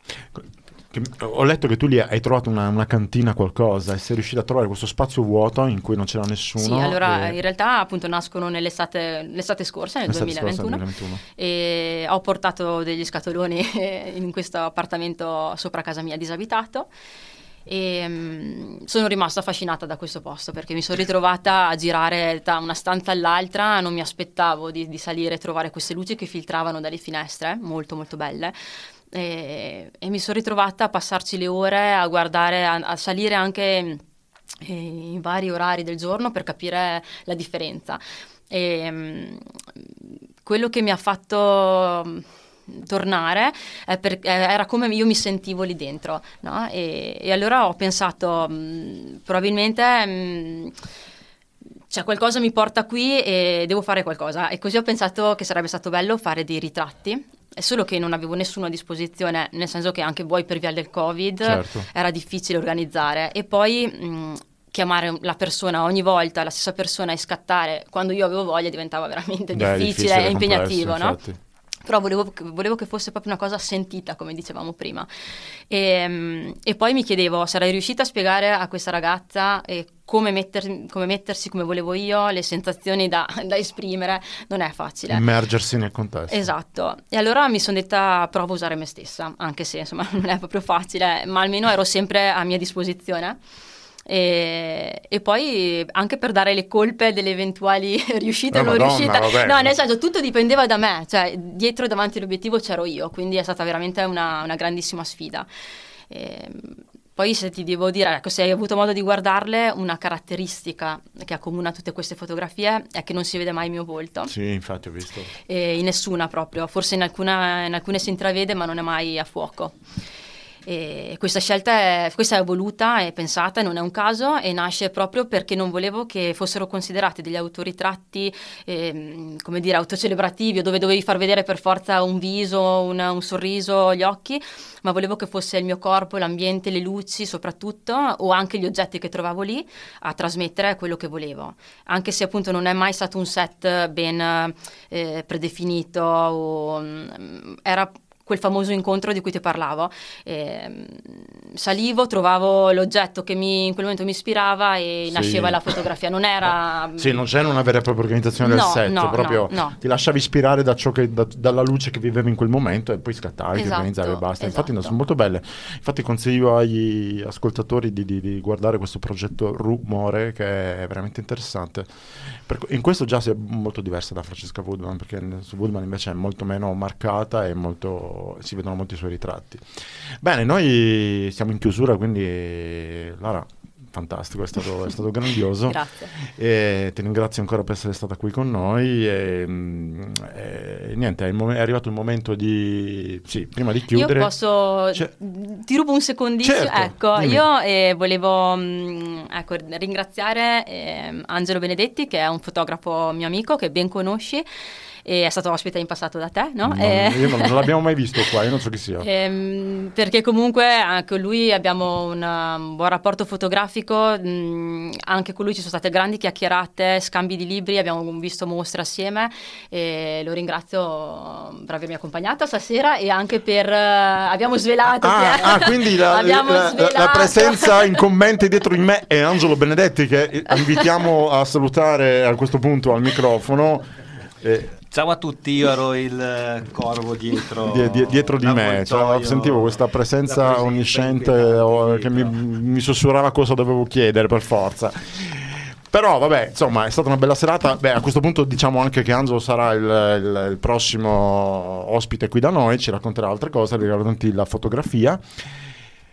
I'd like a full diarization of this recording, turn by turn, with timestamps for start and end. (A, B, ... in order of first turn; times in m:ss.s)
0:00.3-0:07.4 A
0:06.6-0:16.9 B
0:10.1-0:11.2 A
0:17.7-0:34.0 B
0:34.6-0:50.8 B
0:51.9-1:11.2 B
1:01.4-1:01.9 A
1:09.5-1:11.4 A
1:11.8-1:15.1 B
1:15.7-1:25.2 B
1:25.1-1:26.5 A
1:26.3-1:33.4 B
1:34.1-1:45.5 B
1:38.5-1:39.8 A
1:46.1-1:54.3 B
1:54.3-1:55.3 A
1:55.5-1:59.8 B
2:00.7-2:37.2 B
2:35.1-2:35.7 A
2:37.0-3:14.3 A
2:38.4-2:39.8 B
2:43.5-2:45.0 B
3:05.6-3:06.1 B
3:13.9-3:24.4 B
3:16.4-3:17.4 A
3:25.0-3:27.7 B
3:26.6-3:29.1 A
3:29.0-3:48.0 B
3:45.0-3:53.9 A
3:54.4-3:54.8 A
3:54.9-4:02.4 C
3:57.7-4:15.7 A